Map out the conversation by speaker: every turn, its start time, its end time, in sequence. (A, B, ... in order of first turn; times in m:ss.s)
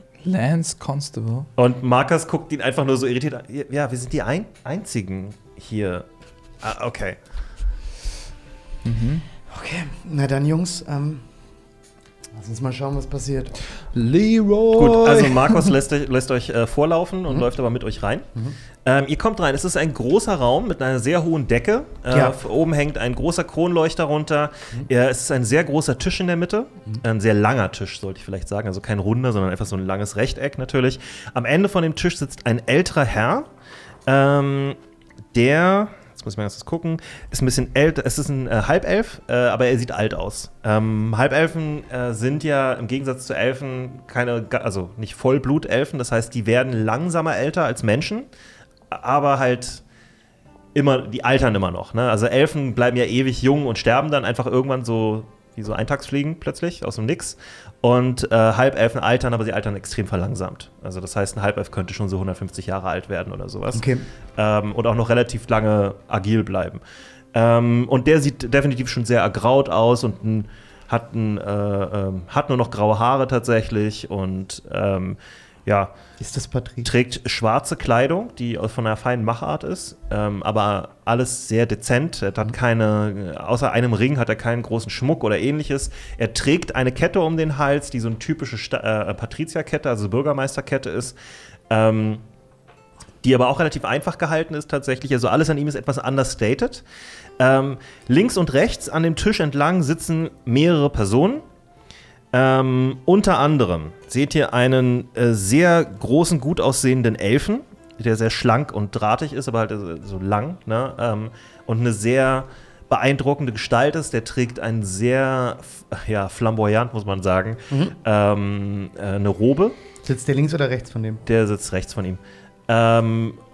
0:00.2-0:01.5 A
0:01.6-0:06.1 B
0:06.6-0:07.2 B
0:08.8-0:09.2 A
0:09.5-0:11.2 C
0:12.3-0:13.6 C
0:13.9-0:15.7 A
0:14.8-0:18.3 B
0:18.8-0:33.5 B
0:22.1-0:22.4 C
0:34.1-0:34.8 B
0:35.3-0:48.3 B
0:48.9-0:49.8 B
0:50.8-1:06.8 B
1:03.7-1:04.1 C
1:07.3-1:15.9 B
1:16.2-1:16.9 C
1:16.8-1:31.2 B
1:31.7-1:32.2 B
1:33.2-1:36.8 B
1:37.4-1:41.4 B
1:42.3-1:59.8 B
2:00.0-2:01.2 C
2:01.3-2:03.4 B